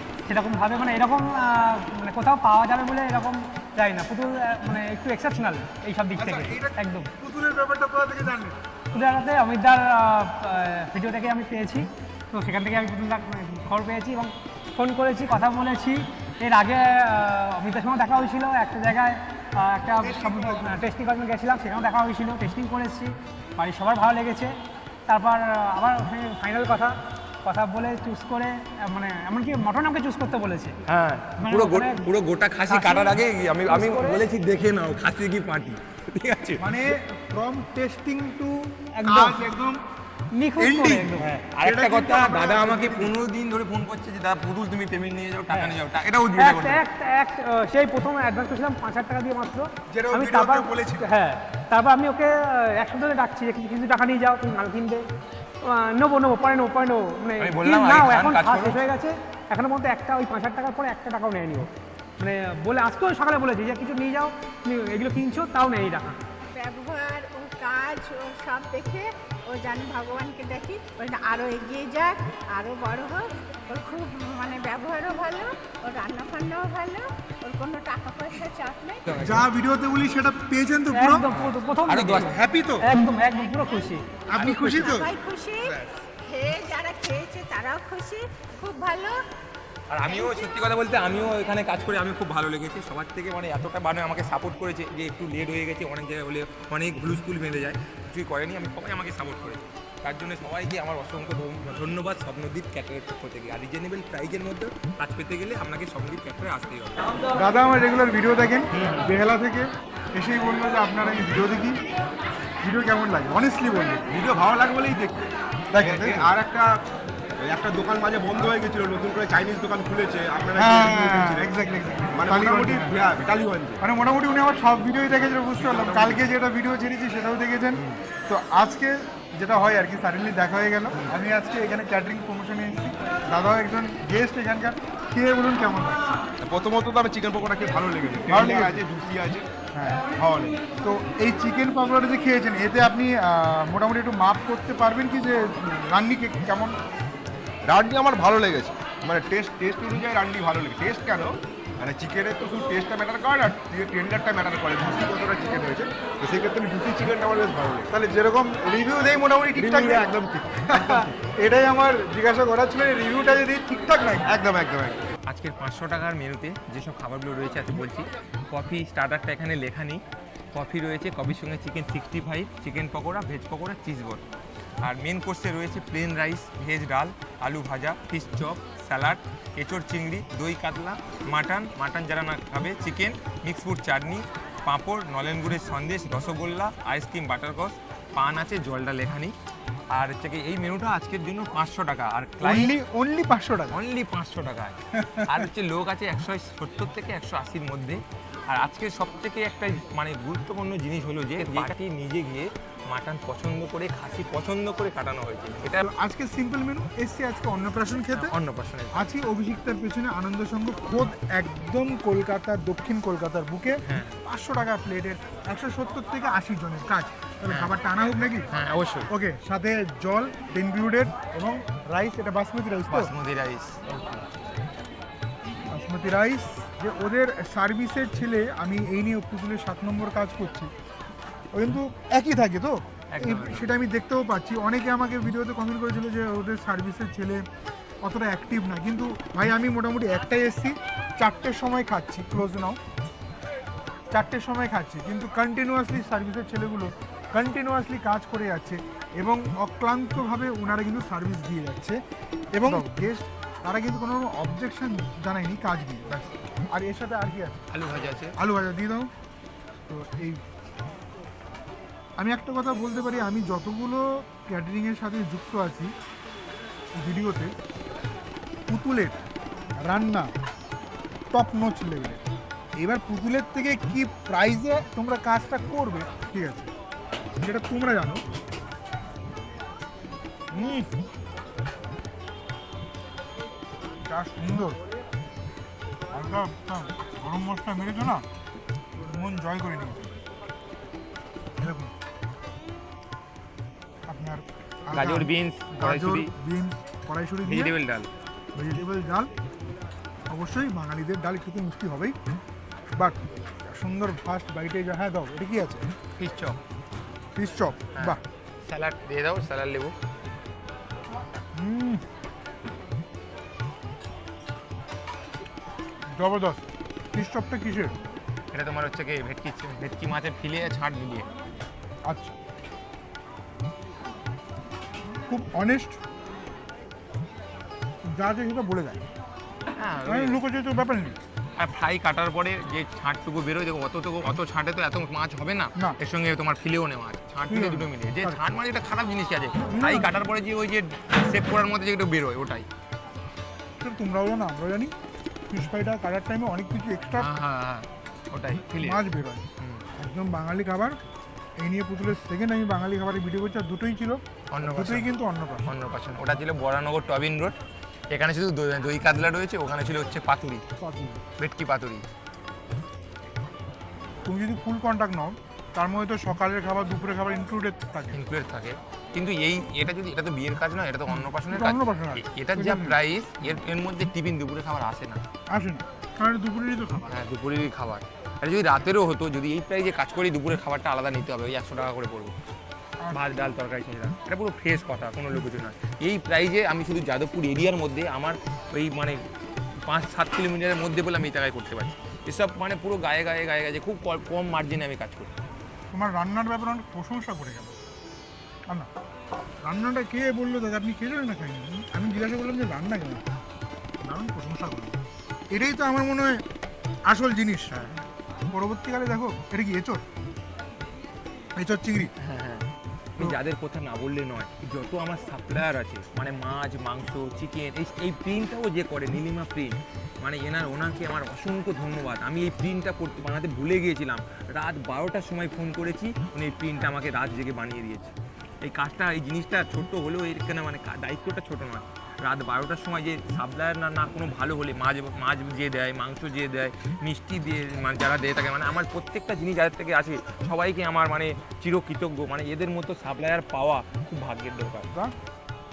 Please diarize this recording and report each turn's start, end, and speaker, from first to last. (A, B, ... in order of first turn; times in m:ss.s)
0:00.2-0:07.1 A
0:06.1-0:08.6 B
0:08.9-0:24.5 A
0:20.0-0:20.9 B
0:25.1-0:26.9 A
0:27.4-0:30.7 A
0:30.8-0:36.7 C
0:31.4-0:32.1 A
0:32.7-0:34.2 A
0:36.6-0:39.8 B
0:39.0-0:39.4 A
0:40.3-0:41.4 A
0:40.6-0:43.2 B
0:41.5-0:46.8 C
0:45.5-0:45.8 A
0:46.3-0:55.0 A
0:49.9-0:51.1 B
0:55.6-1:01.7 A
0:57.4-0:58.8 C
1:02.2-1:06.2 A
1:06.5-1:19.0 D
1:19.1-1:19.4 C
1:19.2-1:21.3 B
1:20.9-1:24.0 A
1:21.3-1:22.3 C
1:22.2-1:22.8 B
1:24.3-1:25.1 B
1:24.4-1:25.0 C
1:24.6-1:29.2 D
1:29.9-1:47.0 C
1:30.0-1:30.5 D
1:47.3-1:51.8 B
1:52.6-1:54.1 B
1:54.1-1:55.2 E
1:55.7-1:56.3 B
1:55.8-1:56.7 E
1:57.4-2:01.5 E
2:00.6-2:03.0 B
2:02.1-2:03.8 E
2:03.8-2:16.1 B
2:05.6-2:06.2 E
2:16.4-2:19.5 E
2:18.3-2:18.8 B
2:19.7-2:20.0 B
2:20.1-2:20.7 E
2:20.8-2:26.8 B
2:27.6-2:37.9 E
2:37.9-2:40.1 B
2:39.6-2:41.1 E
2:40.7-2:44.3 B
2:44.3-2:45.0 E
2:45.3-2:54.2 C
2:54.8-3:09.3 C
3:09.9-3:12.7 C
3:12.4-3:13.8 B
3:13.7-3:25.8 C
3:14.9-3:15.5 B
3:25.8-3:28.4 B
3:28.1-3:29.0 C
3:28.9-3:38.5 B
3:33.9-3:34.2 C
3:37.5-3:37.8 C
3:38.5-3:39.1 C
3:39.1-3:43.1 B
3:42.9-3:44.2 C
3:45.7-3:50.7 B
3:51.5-3:57.4 B
3:53.1-3:53.7 C
3:58.0-4:02.8 B
4:04.1-4:12.0 B
4:12.5-4:17.6 B
4:17.7-4:18.3 C
4:18.4-4:19.1 B
4:19.8-4:20.4 B
4:22.2-4:25.9 B
4:27.0-4:27.5 B
4:28.7-4:29.2 B
4:29.8-4:30.3 B
4:31.3-4:32.2 B
4:32.8-4:36.7 B
4:37.4-4:38.2 B
4:40.5-4:40.9 B
4:44.0-4:44.8 B
4:46.1-4:48.2 B
4:49.0-4:50.1 B
4:51.6-4:51.9 B
4:54.1-4:57.8 B
4:54.9-4:56.3 C
4:57.4-4:58.1 C
4:58.5-4:59.3 B
5:00.3-5:02.1 B
5:02.9-5:05.8 B
5:06.2-5:06.6 C
5:07.4-5:08.2 B
5:08.0-5:09.9 C
5:11.5-5:12.0 B
5:16.1-5:17.9 B
5:18.5-5:21.3 C
5:22.0-5:22.4 B
5:25.3-5:26.0 B
5:28.0-5:29.0 B
5:29.7-5:30.4 C
5:30.0-5:31.2 B
5:31.6-5:42.6 C
5:37.5-5:38.4 B
5:39.7-5:40.1 B
5:43.8-5:44.9 B
5:45.5-5:47.3 B
5:47.2-5:49.0 C
5:48.7-5:49.4 B
5:49.6-5:49.8 C
5:50.0-5:51.0 B
5:51.6-5:55.7 B
5:54.5-5:55.1 C
5:55.7-5:57.6 C
5:58.1-6:00.6 C
6:00.8-6:01.2 B
6:01.4-6:02.0 C
6:04.2-6:08.2 B
6:08.1-6:15.2 C
6:11.5-6:13.0 B
6:15.5-6:17.2 B
6:17.1-6:22.3 C
6:23.0-6:23.5 B
6:23.1-6:29.2 C
6:29.8-6:35.3 C
6:35.9-6:37.8 B
6:39.6-6:43.3 B
6:44.0-6:45.0 B
6:45.5-6:46.4 B
6:47.1-6:47.8 B
6:47.7-6:48.0 C
6:48.5-6:50.0 B
6:51.6-6:52.1 B
6:52.2-7:24.9 C